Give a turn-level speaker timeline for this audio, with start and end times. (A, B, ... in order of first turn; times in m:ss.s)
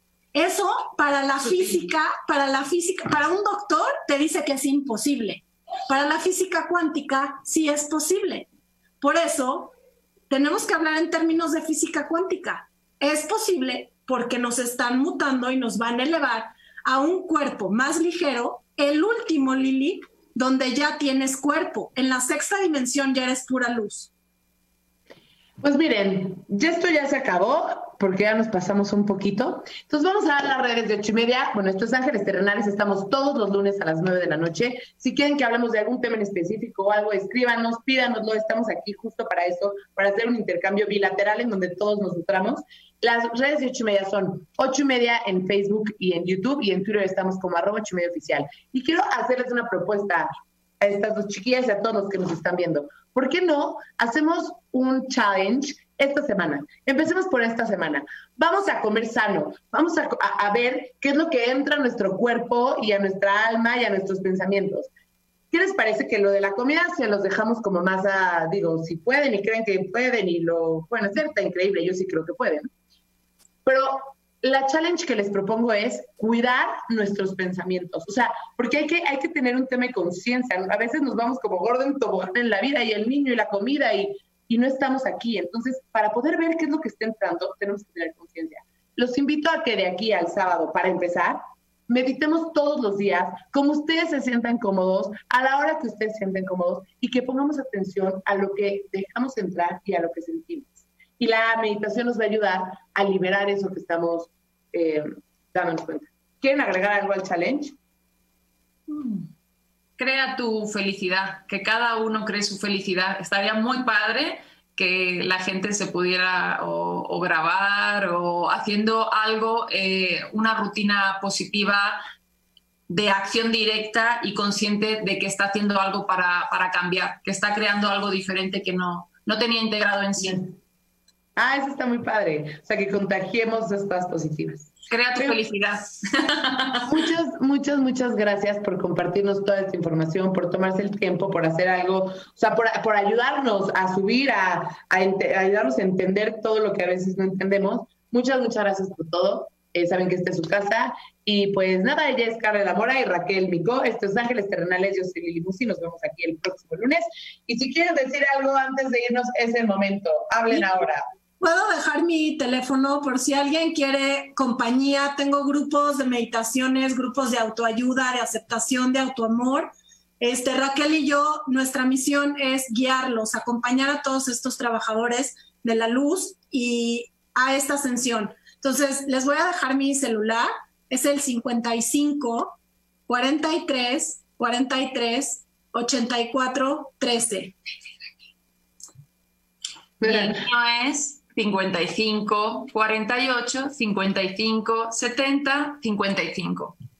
0:00.3-0:08.5 A
0:09.0-0:09.7 A
0:10.3-0:24.1 A
0:25.6-0:50.3 B
0:50.8-1:04.9 B
1:05.5-1:12.7 B
1:13.6-1:47.7 B
1:48.9-1:49.3 C
1:50.0-2:02.0 C
2:02.9-2:10.5 C
2:11.4-2:15.4 B
2:14.9-2:16.8 C
2:16.8-2:41.0 B
2:41.4-3:02.6 A
3:03.1-3:07.5 A
3:10.0-3:10.4 B
3:10.0-3:16.8 C